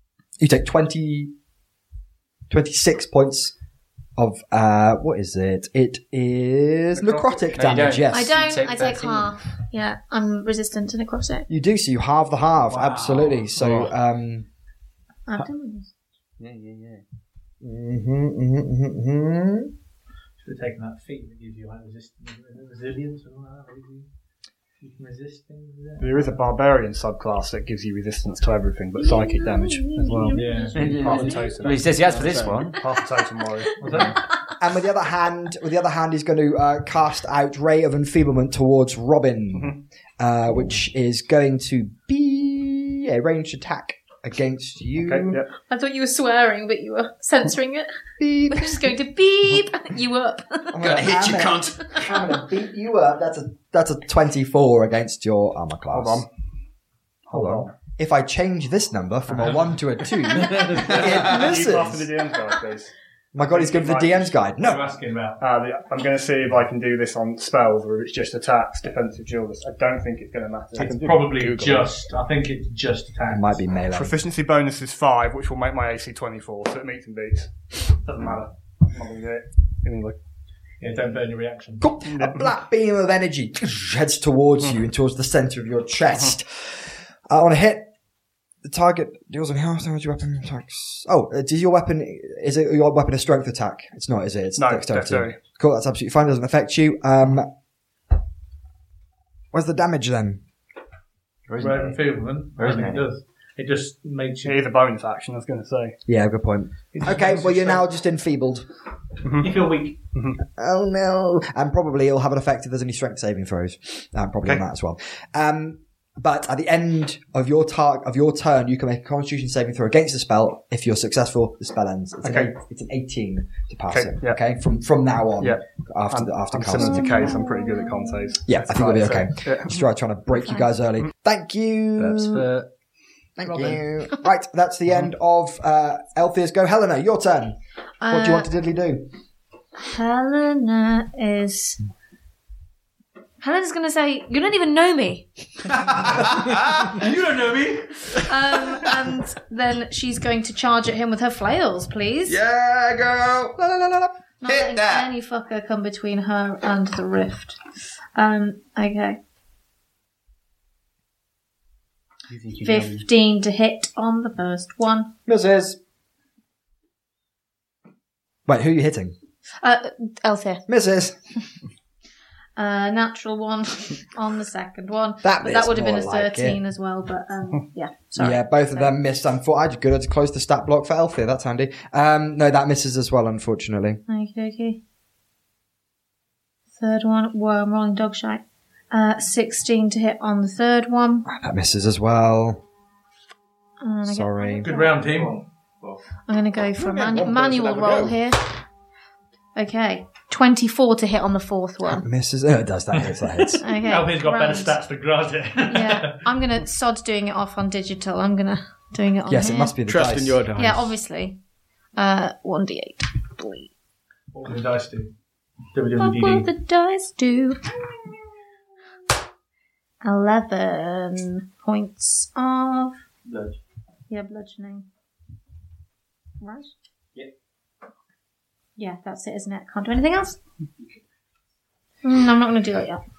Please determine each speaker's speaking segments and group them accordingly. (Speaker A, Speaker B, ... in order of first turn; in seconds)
Speaker A: 0.4-1.3, 2.5-3.5, 4.2-8.4, 11.5-14.5, 17.6-19.7, 34.6-45.4, 48.2-48.9, 50.7-56.3, 57.3-62.1, 63.3-64.8, 73.3-74.2, 81.8-87.9, 88.6-97.5, 99.5-100.4, 106.1-108.7, 110.5-127.2, 128.5-132.5, 133.4-137.6, 138.1-139.1, 165.3-165.8, 168.5-169.2, 170.7-171.2, 175.2-176.6, 178.2-184.0, 191.3-192.6, 194.1-194.7, 201.8-203.6, 209.3-210.4
Speaker B: 7.0-7.6, 26.0-33.8, 45.0-45.5, 55.9-56.3, 57.3-57.7, 60.6-64.3, 65.4-71.2, 73.9-80.2, 82.1-82.5, 94.6-95.4, 104.4-106.0, 109.2-109.5, 122.2-122.5, 123.9-124.4, 125.4-129.8
Speaker C: 7.5-9.3, 16.4-17.0, 30.8-32.8, 101.5-102.0, 102.6-103.1, 132.0-132.7, 162.3-163.1, 195.0-196.0, 223.3-223.6
Speaker D: 8.1-11.5, 15.3-15.9, 29.0-31.3, 34.0-34.6, 45.6-48.0, 48.5-50.8, 126.8-128.3, 138.0-138.5, 139.8-141.8, 143.4-145.8, 148.1-152.4, 154.4-157.6, 158.2-159.2, 162.6-165.1, 169.6-170.6, 172.6-178.9, 184.1-184.8, 186.8-191.2, 193.8-195.0, 196.3-198.6, 199.6-202.0, 203.6-204.8, 205.7-209.8, 210.6-211.4, 212.0-213.7, 216.0-217.7, 220.0-223.0, 224.1-224.9, 226.4-226.7, 228.8-230.4, 232.0-233.0
Speaker E: 12.7-13.5, 20.4-24.1, 24.8-26.4, 30.3-31.8, 33.8-34.2, 64.6-65.4, 70.8-73.6, 80.8-81.9, 101.6-104.6, 107.0-107.8, 109.4-110.0, 133.5-133.8, 146.9-148.3, 194.6-195.4, 203.4-206.2, 214.3-215.1, 215.7-216.5
Speaker F: 32.0-32.6, 70.8-72.0, 196.8-198.2, 209.9-211.0
Speaker G: 50.8-52.0, 146.0-147.0, 152.3-155.1